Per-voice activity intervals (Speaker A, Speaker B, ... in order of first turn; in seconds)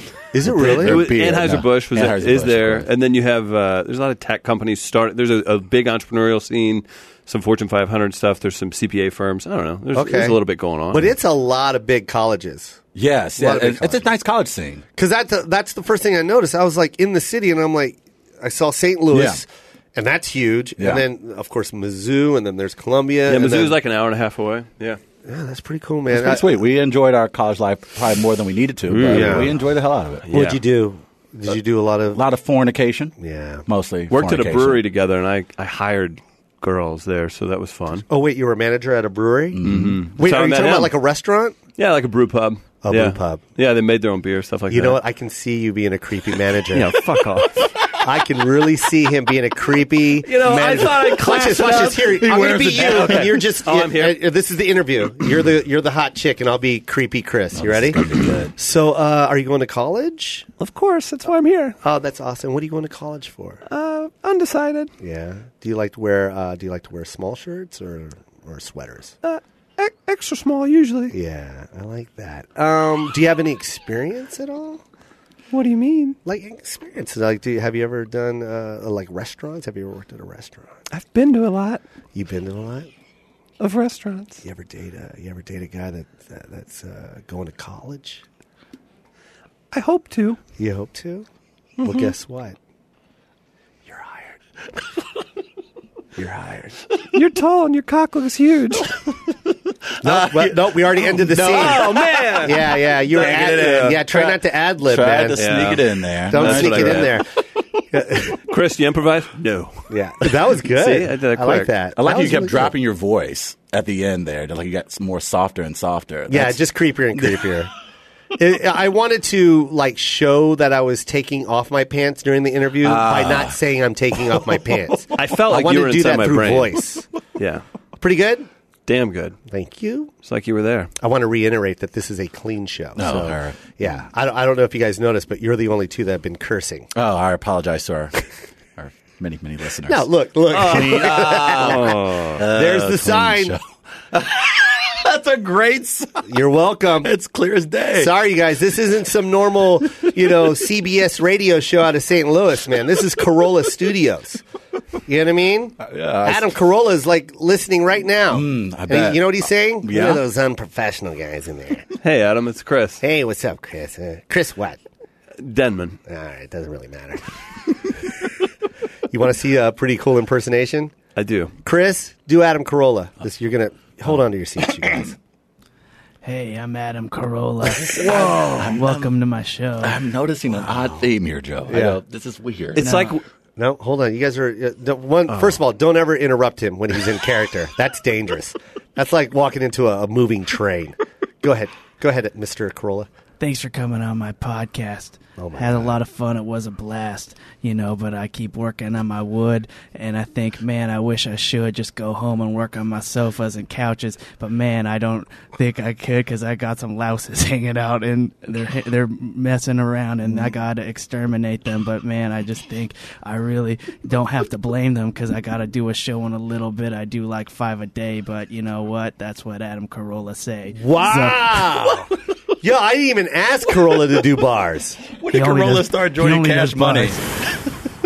Speaker A: 0.3-1.0, 9.9-10.4, 10.9-12.8, 13.4-14.0, 14.9-23.8, 25.2-26.5, 29.1-29.5, 30.3-32.2, 33.2-33.6, 38.1-41.6, 42.8-43.4, 44.7-46.9, 47.9-58.0, 58.5-60.5, 61.8-63.6, 65.0-69.1, 71.1-74.8, 76.2-80.7, 82.1-82.9, 84.4-88.2, 90.6-91.2, 91.8-92.6, 93.9-94.3, 96.2-96.8, 100.0-105.8, 106.3-107.2, 107.9-108.4, 109.9-112.7, 116.3-117.7, 118.3-127.0, 128.0-128.5, 129.5-130.1, 131.0-136.9, 139.9-143.6, 146.3-147.1, 147.9-154.4, 155.1-161.9, 163.0-164.8, 166.1-167.3, 169.1-170.9, 171.6-175.2, 177.9-178.3, 181.7-182.0, 183.6-193.1, 195.4-196.0, 220.8-225.0
Speaker B: 0.4-2.9, 12.9-14.8, 19.1-19.4, 20.8-21.0, 26.1-30.6, 32.1-33.1, 33.6-34.8, 39.5-40.0, 52.0-53.4, 57.5-58.5, 100.0-102.5, 103.1-107.2, 112.0-117.5, 122.8-123.6, 124.1-125.2, 133.0-133.8, 136.9-138.2, 138.8-143.6, 144.1-146.3, 147.0-148.1, 155.8-156.6, 158.3-160.2, 177.9-179.1, 179.8-183.1, 225.2-227.2
Speaker C: 0.6-11.1, 23.3-25.0, 28.9-29.5, 30.3-30.6, 34.1-38.0, 39.6-40.9, 41.8-45.0, 46.7-47.7, 50.2-54.2, 60.6-61.8, 63.6-64.9, 69.2-71.1, 75.5-76.2, 80.9-81.8, 83.6-84.4, 89.7-90.4, 91.8-92.1, 97.1-99.0, 101.4-103.9, 105.4-107.2, 108.2-111.7, 125.2-126.8, 127.4-127.6, 128.9-129.4, 130.2-130.9, 140.7-142.4, 162.0-163.0, 165.4-166.0, 171.2-171.5, 182.7-183.2
Speaker D: 176.2-180.0, 182.8-183.1, 193.4-221.7, 225.3-227.2